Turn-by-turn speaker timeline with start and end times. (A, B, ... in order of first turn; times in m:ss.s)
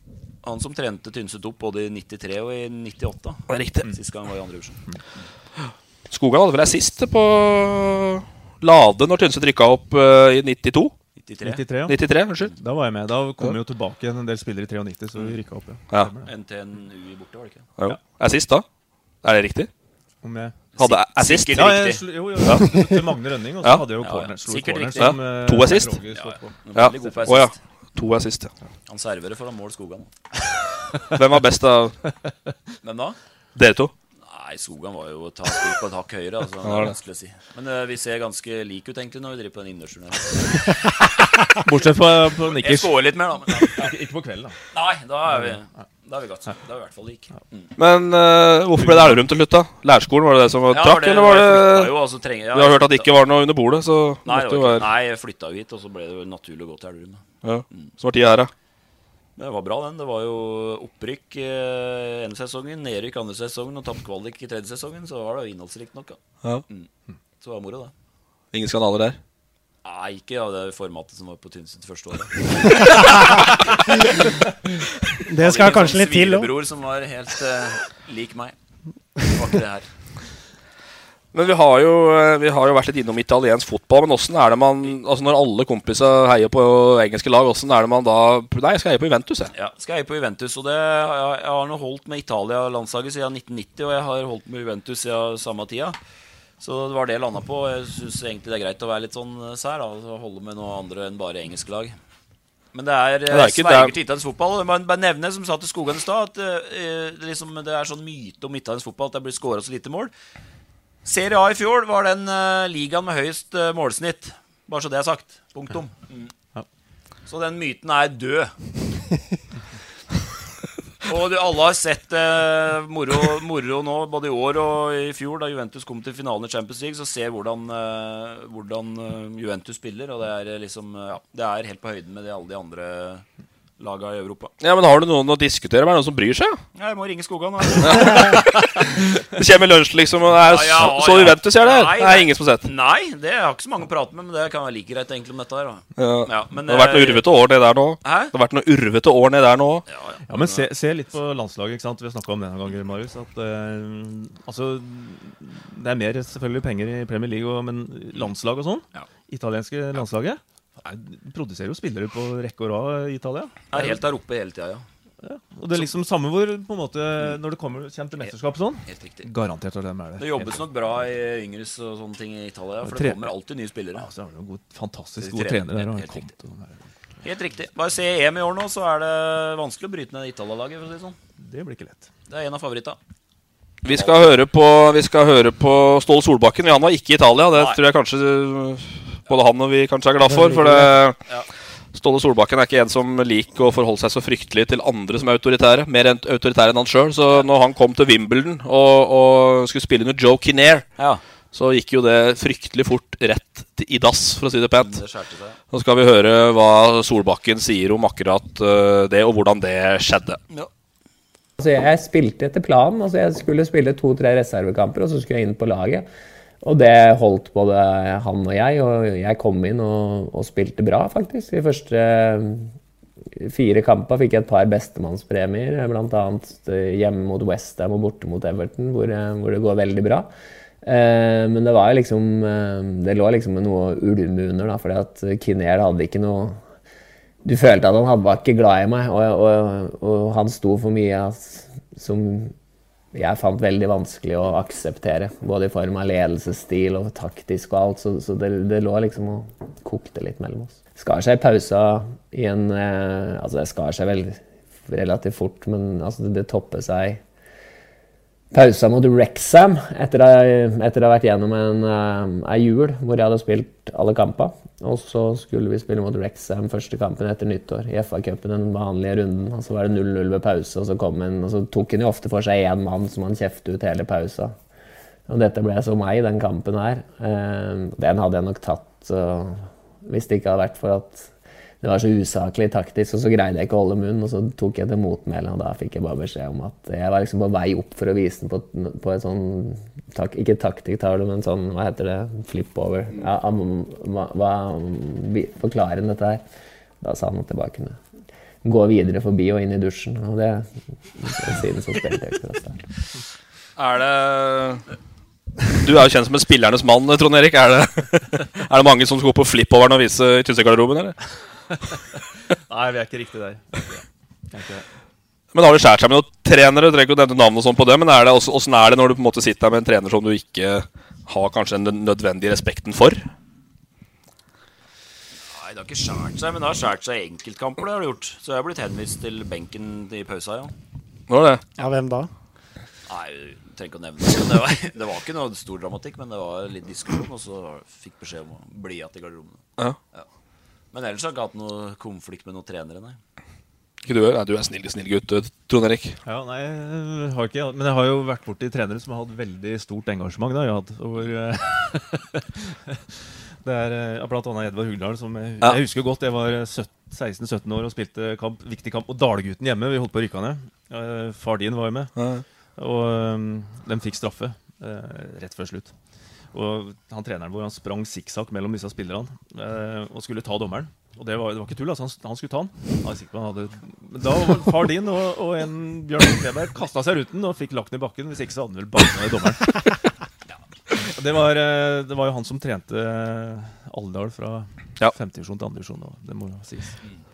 0:00.4-0:04.8 A
0:03.5-0:03.9 B
0:06.1-0:10.9 B
0:11.2-0:11.6 A
0:11.4-0:12.0 C
0:11.9-0:12.5 B
0:12.5-0:16.3 C
0:16.2-0:17.7 A
0:17.8-0:18.6 B
0:19.2-0:19.7 B
0:20.2-0:20.7 C
0:20.8-0:22.0 A
0:20.8-0:21.5 B
0:21.5-0:26.6 C
0:22.4-0:22.8 B
0:24.0-0:25.2 A
0:25.0-0:26.0 B
0:26.1-0:27.5 A
0:26.7-0:28.5 B
0:28.9-0:30.1 A
0:31.1-0:31.9 B
0:32.8-0:33.2 A
0:33.5-0:33.9 B
0:34.2-0:40.8 A
0:36.6-0:36.9 B
0:41.5-0:44.5 C
0:42.5-0:43.9 A
0:44.7-0:47.7 A
0:47.8-0:51.9 B
0:48.8-0:49.2 C
0:50.7-0:53.1 A
0:52.5-0:54.9 B
0:54.2-0:57.9 A
0:57.4-0:58.5 B
0:59.4-1:06.9 A
1:07.4-1:07.9 A
1:08.5-1:09.2 B
1:09.8-1:14.0 A
1:15.3-1:16.5 D
1:15.4-1:18.5 A
1:19.2-1:19.9 A
1:21.3-1:29.5 B
1:29.5-1:36.0 A
1:36.6-1:41.9 A
1:42.7-1:50.1 A
1:43.3-1:43.9 B
1:51.0-1:56.3 A
1:57.3-1:58.5 A
2:01.0-2:13.2 A
2:13.8-2:14.5 A
2:14.6-2:16.6 B
2:16.7-2:18.4 A
2:17.8-2:22.7 B
2:20.4-2:27.2 A
2:26.0-2:29.8 B
2:28.0-2:28.3 A
2:29.9-2:30.7 A
2:30.3-2:44.0 C
2:43.7-2:44.8 A
2:45.2-2:50.6 C
2:48.9-2:49.2 A
2:50.2-2:54.1 A
2:52.8-2:53.3 C
2:54.0-2:56.8 C
2:55.2-2:56.3 A
2:57.2-3:01.2 A
3:01.4-3:02.1 C
3:02.3-3:03.0 A
3:03.8-3:11.2 B
3:03.9-3:04.4 A
3:07.5-3:07.8 A
3:10.3-3:10.9 D
3:11.9-3:20.8 B
3:21.5-3:25.0 B
3:24.8-3:25.6 A
3:25.7-3:30.4 B
3:31.6-3:36.1 E
3:36.6-3:42.7 E
3:43.4-3:50.3 E
3:50.8-3:56.6 E
3:57.4-4:02.5 E
4:03.1-4:17.2 E
4:18.5-4:34.5 E
4:35.3-4:41.3 E
4:41.8-4:56.4 E
4:57.0-4:58.0 E
4:58.6-5:02.8 E
5:03.8-5:04.8 B
5:05.8-5:11.2 B
5:12.7-5:14.8 C
5:15.5-5:23.2 B
5:25.5-5:30.7 A
5:31.3-5:31.6 B
5:31.8-5:32.3 D
5:33.1-5:40.2 A
5:40.9-5:43.2 A
5:44.0-5:46.2 B
5:46.2-5:53.0 C
5:53.6-6:02.1 C
6:02.2-6:02.4 B
6:02.8-6:05.9 C
6:06.5-6:20.1 C
6:20.9-6:27.0 C